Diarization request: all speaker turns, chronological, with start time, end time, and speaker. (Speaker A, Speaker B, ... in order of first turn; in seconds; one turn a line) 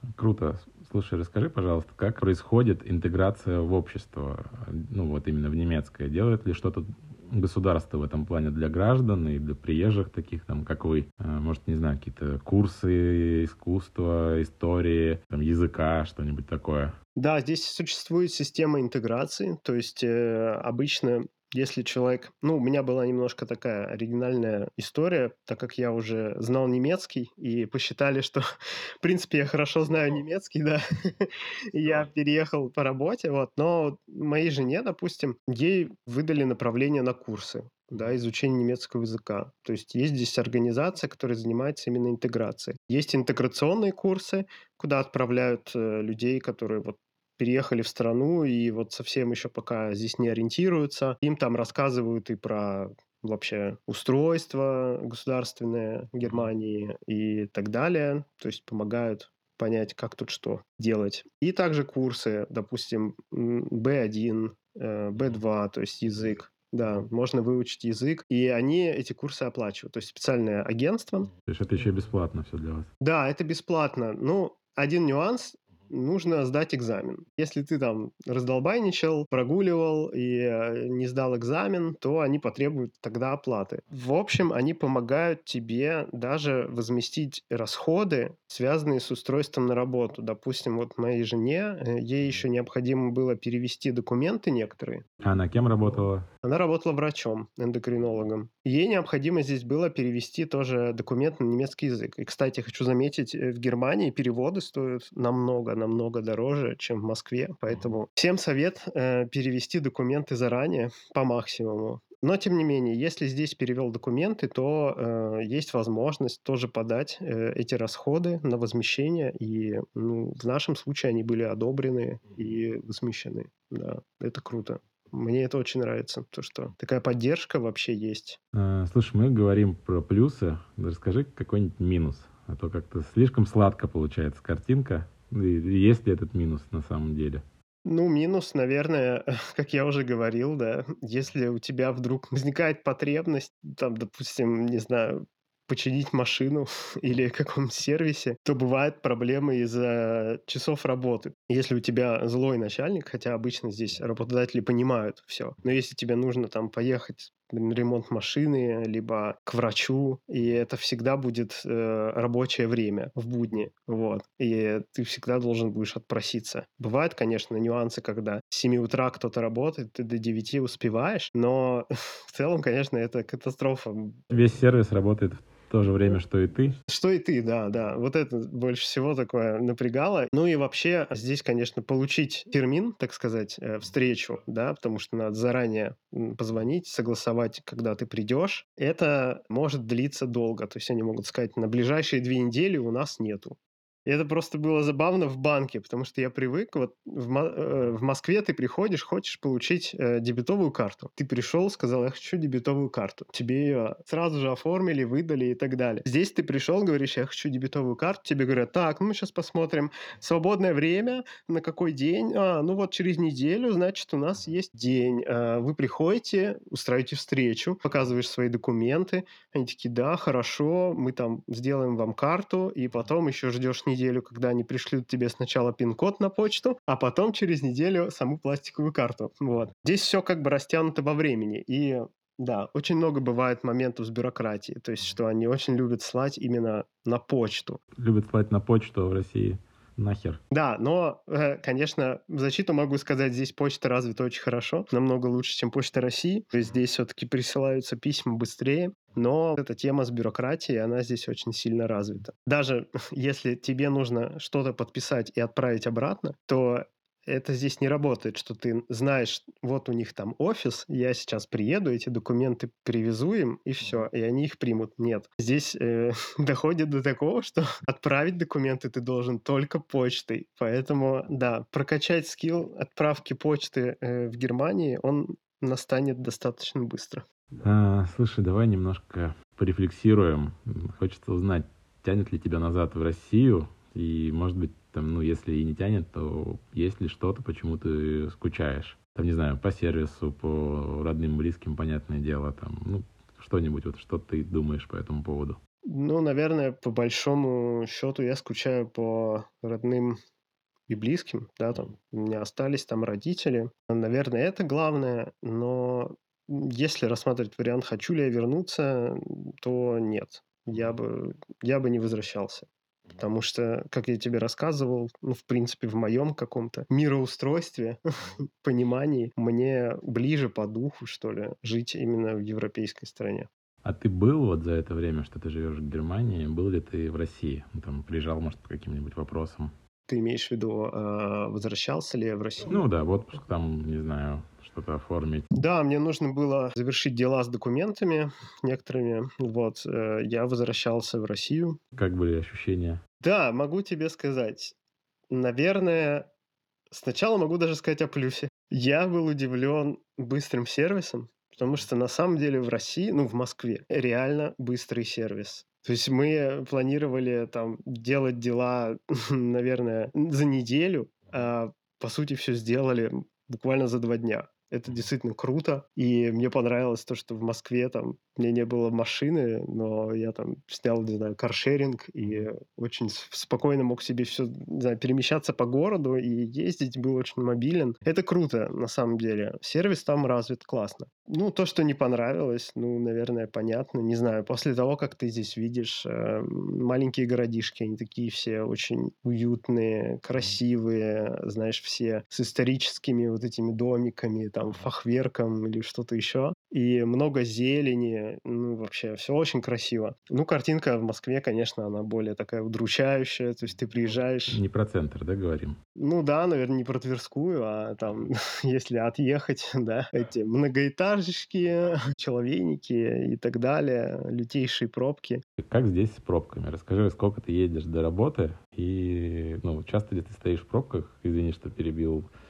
Speaker A: 0.2-16.9
Speaker B: 17.2-28.4
Speaker B: 29.0-71.3
Speaker A: 71.5-72.9
Speaker B: 73.0-95.0
Speaker A: 95.2-96.2
Speaker B: 96.4-128.4
Speaker A: 128.5-137.4
Speaker B: 137.8-174.2
Speaker A: 174.3-176.8
Speaker B: 176.9-237.8
Speaker A: 238.0-240.4
Speaker B: 240.5-277.2
Speaker A: 277.6-295.6
Speaker B: 295.9-300.2
Speaker B: 300.9-318.0
Speaker B: 318.6-323.5
Speaker A: 323.8-329.7
Speaker B: 330.1-332.7
Speaker A: 332.7-335.4
Speaker B: 335.5-341.8
Speaker A: 341.9-343.0
Speaker B: 343.2-344.7
Speaker B: 345.3-346.3
Speaker B: 346.9-404.6
Speaker A: 404.5-405.8
Speaker B: 406.0-415.4
Speaker A: 415.6-422.3